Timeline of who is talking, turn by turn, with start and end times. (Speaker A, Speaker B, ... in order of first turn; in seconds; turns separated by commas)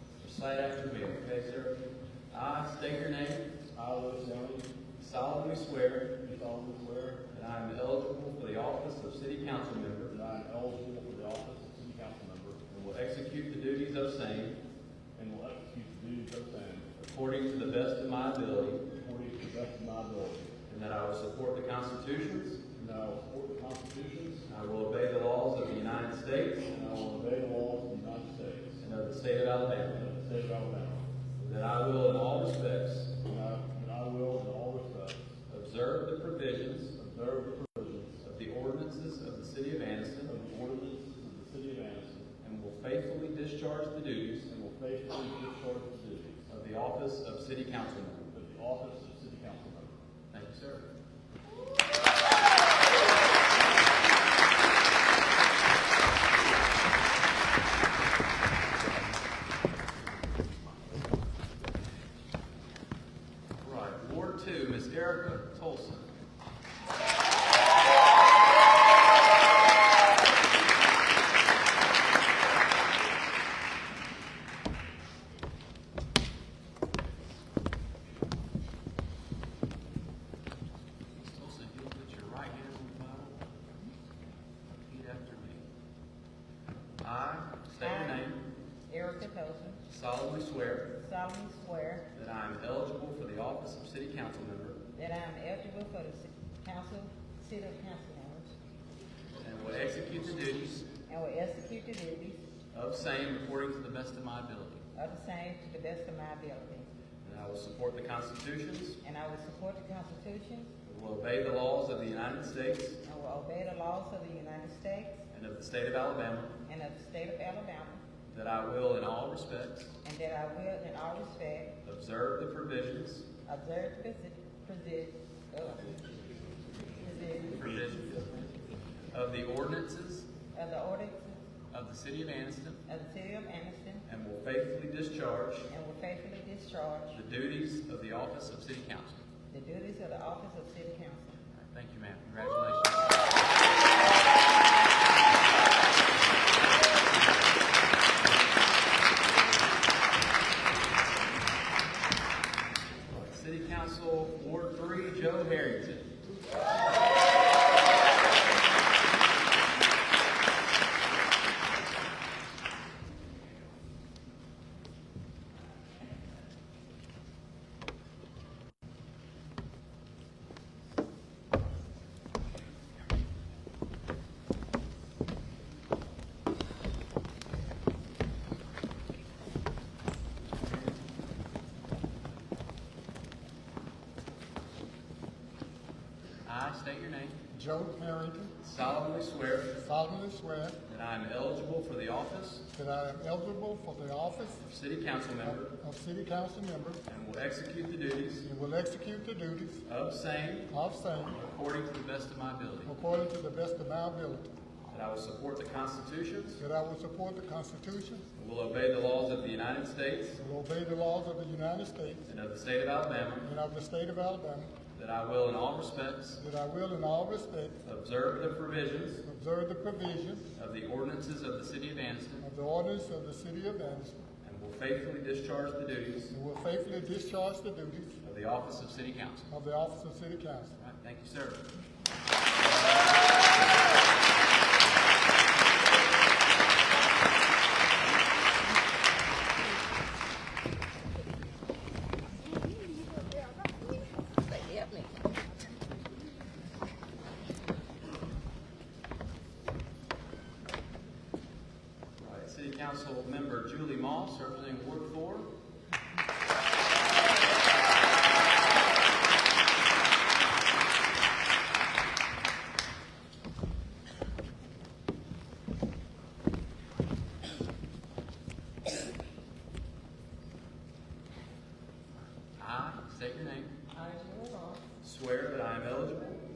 Speaker A: 0.2-1.8, Speaker A: 2.3-3.5, Speaker B: 3.7-4.7, Speaker A: 5.0-6.1, Speaker B: 6.2-7.3, Speaker A: 7.3-10.1, Speaker B: 10.1-12.7, Speaker A: 12.7-14.6, Speaker B: 15.1-16.9, Speaker A: 17.0-18.9, Speaker B: 19.0-20.5, Speaker A: 20.7-22.6, Speaker B: 22.7-24.4, Speaker A: 24.5-26.7, Speaker B: 26.7-28.8, Speaker A: 28.8-30.1, Speaker B: 29.9-31.1, Speaker A: 31.4-33.1, Speaker B: 33.2-35.2, Speaker A: 35.5-36.9, Speaker B: 37.0-38.2, Speaker A: 38.2-40.3, Speaker B: 40.3-42.3, Speaker A: 42.4-44.5, Speaker B: 44.5-46.5, Speaker A: 46.5-48.3, Speaker B: 48.3-50.0, Speaker A: 50.3-50.9, Speaker A: 63.6-66.1, Speaker A: 81.2-83.4, Speaker A: 84.8-85.7, Speaker A: 87.0-88.4, Speaker C: 87.8-88.3, Speaker C: 88.9-89.8, Speaker A: 89.9-90.9, Speaker C: 91.0-92.1, Speaker A: 92.1-94.8, Speaker C: 94.9-98.5, Speaker A: 99.4-100.9, Speaker C: 101.1-102.4, Speaker A: 102.7-104.8, Speaker C: 104.9-106.9, Speaker A: 107.2-109.0, Speaker C: 109.0-110.7, Speaker A: 110.8-113.0, Speaker C: 113.0-115.2, Speaker A: 115.3-116.5, Speaker C: 116.7-118.0, Speaker A: 118.3-119.9, Speaker C: 120.0-121.8, Speaker A: 121.8-123.2, Speaker C: 123.5-126.0, Speaker C: 127.0-127.7, Speaker A: 127.5-128.5, Speaker A: 129.1-130.3, Speaker C: 130.5-131.4, Speaker A: 131.7-132.8, Speaker C: 132.9-134.1, Speaker A: 134.1-135.7, Speaker C: 135.7-137.2, Speaker A: 137.1-139.2, Speaker C: 139.5-141.4, Speaker A: 141.5-143.2, Speaker A: 153.1-156.1, Speaker A: 186.5-187.4, Speaker D: 187.5-188.6, Speaker A: 188.6-189.7, Speaker D: 189.8-190.8, Speaker A: 190.9-192.7, Speaker D: 192.7-194.6, Speaker A: 194.6-195.7, Speaker D: 195.4-197.0, Speaker A: 197.1-198.4, Speaker D: 198.4-199.8, Speaker A: 199.8-200.7, Speaker D: 200.7-201.4, Speaker A: 201.3-202.9, Speaker D: 202.9-204.5, Speaker A: 204.9-206.6, Speaker D: 206.6-208.2, Speaker A: 208.4-210.4, Speaker D: 210.4-212.2, Speaker A: 212.2-213.5, Speaker D: 213.4-214.8, Speaker A: 214.9-216.4, Speaker D: 216.4-217.8, Speaker A: 217.8-219.2, Speaker D: 219.2-220.4, Speaker A: 220.6-222.5, Speaker D: 222.4-224.2, Speaker A: 224.4-226.3, Speaker D: 226.3-228.2, Speaker A: 228.2-229.5, Speaker D: 229.5-230.8, Speaker A: 230.8-231.6, Speaker A: 232.7-233.1, Speaker A: 252.2-255.5, Speaker A: 272.6-273.7, Speaker C: 273.9-274.8, Speaker D: 274.0-274.5, Speaker A: 275.0-276.4